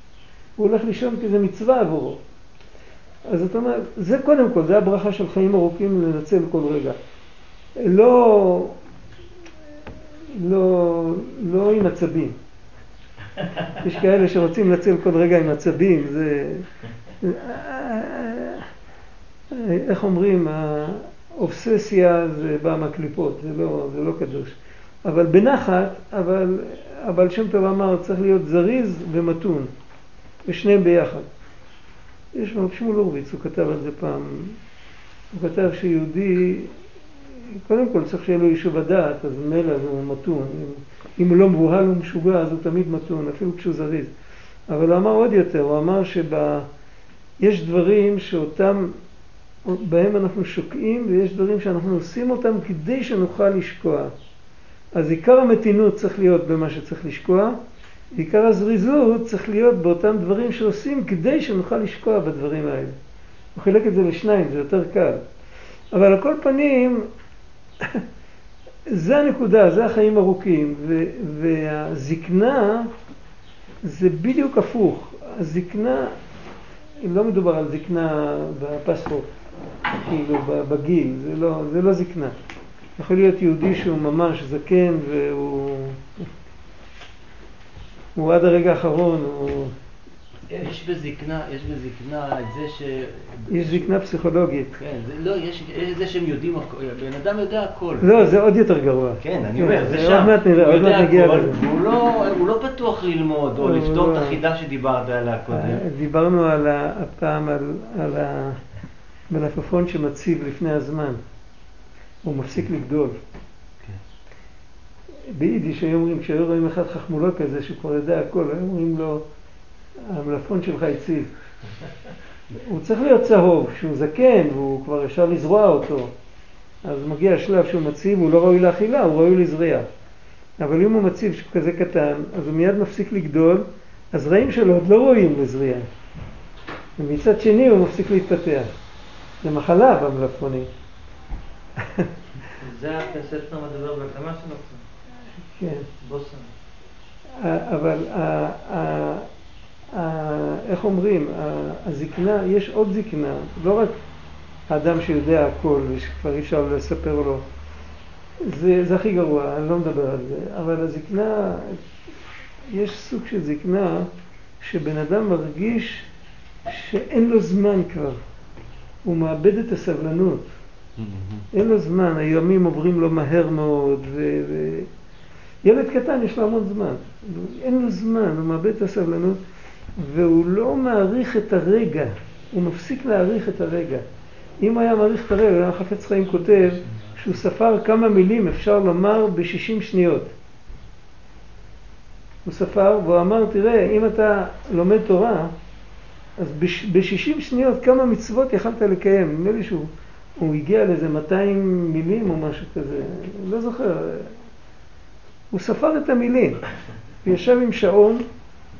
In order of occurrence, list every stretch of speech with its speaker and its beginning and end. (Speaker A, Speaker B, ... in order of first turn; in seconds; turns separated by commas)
Speaker A: 0.6-2.2, Speaker A: 3.3-7.0, Speaker A: 7.8-8.8, Speaker A: 10.3-12.4, Speaker A: 13.8-16.6, Speaker A: 17.2-18.7, Speaker A: 19.5-29.7, Speaker A: 30.4-31.3, Speaker A: 32.3-34.6, Speaker A: 35.3-36.7, Speaker A: 37.6-44.1, Speaker A: 44.7-46.7, Speaker A: 47.4-49.0, Speaker A: 49.6-54.1, Speaker A: 54.9-57.5, Speaker A: 58.1-62.9, Speaker A: 63.5-65.2, Speaker A: 65.9-67.0, Speaker A: 68.9-72.9, Speaker A: 73.8-76.1, Speaker A: 77.0-79.3, Speaker A: 80.0-82.4, Speaker A: 83.0-86.3, Speaker A: 88.2-89.7, Speaker B: 90.5-93.9, Speaker A: 93.5-94.7, Speaker B: 94.8-98.3, Speaker A: 98.0-101.6, Speaker B: 99.2-105.8, Speaker A: 103.6-104.4, Speaker A: 105.5-108.6, Speaker A: 109.3-111.2, Speaker A: 112.2-113.2, Speaker A: 115.3-119.2, Speaker A: 120.1-121.3, Speaker A: 122.5-126.1, Speaker A: 126.8-129.9, Speaker A: 130.6-135.9, Speaker A: 137.0-138.7, Speaker A: 139.4-140.7, Speaker A: 141.8-142.1, Speaker C: 142.6-144.8, Speaker A: 145.6-145.9, Speaker C: 146.0-146.5, Speaker A: 147.4-149.3, Speaker A: 149.9-153.9, Speaker A: 154.7-157.4, Speaker A: 158.4-161.8, Speaker A: 162.7-164.1, Speaker A: 164.6-166.1, Speaker A: 166.7-168.2, Speaker A: 169.0-170.5, Speaker A: 171.5-174.9, Speaker A: 175.6-179.4, Speaker A: 180.0-184.0, Speaker A: 184.6-190.3, Speaker A: 192.4-195.5, Speaker A: 196.4-204.3, Speaker A: 205.5-206.6, Speaker A: 207.2-208.2